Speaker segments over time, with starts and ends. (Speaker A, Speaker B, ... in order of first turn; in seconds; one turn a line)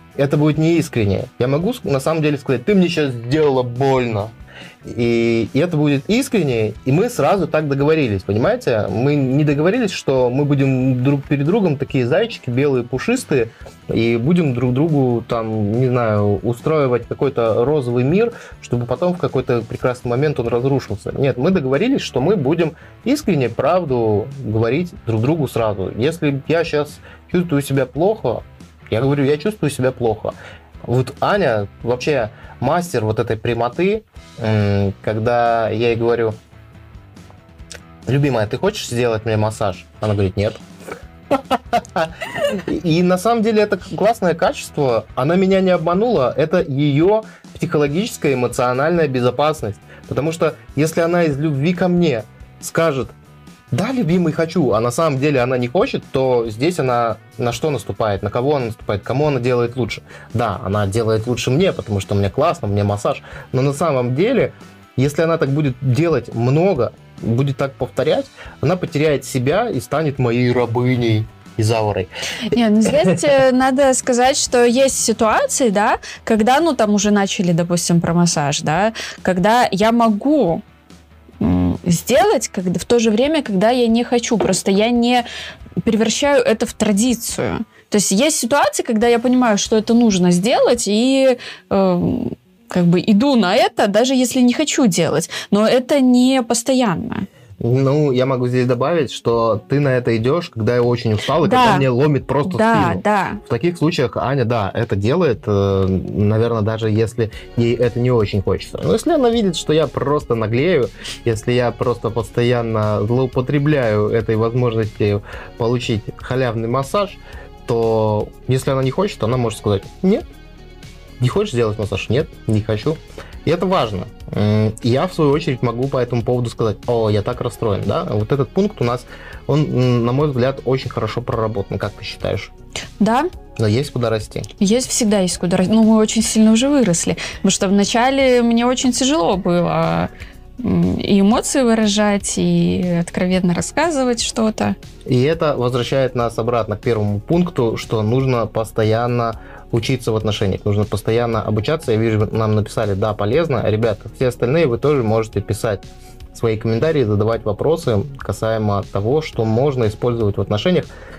Speaker A: 0.1-4.3
Speaker A: 4.8-36.4
Speaker A: 38.1-40.6
Speaker A: 41.3-53.1
Speaker A: 53.7-73.1
Speaker B: 72.5-80.6
Speaker B: 81.4-85.2
Speaker B: 85.8-97.3
Speaker A: 97.6-120.2
Speaker B: 101.4-101.9
Speaker B: 102.5-103.4
Speaker A: 121.2-132.5
Speaker B: 133.0-133.3
Speaker A: 133.6-134.5
Speaker B: 134.6-144.8
Speaker A: 145.1-160.9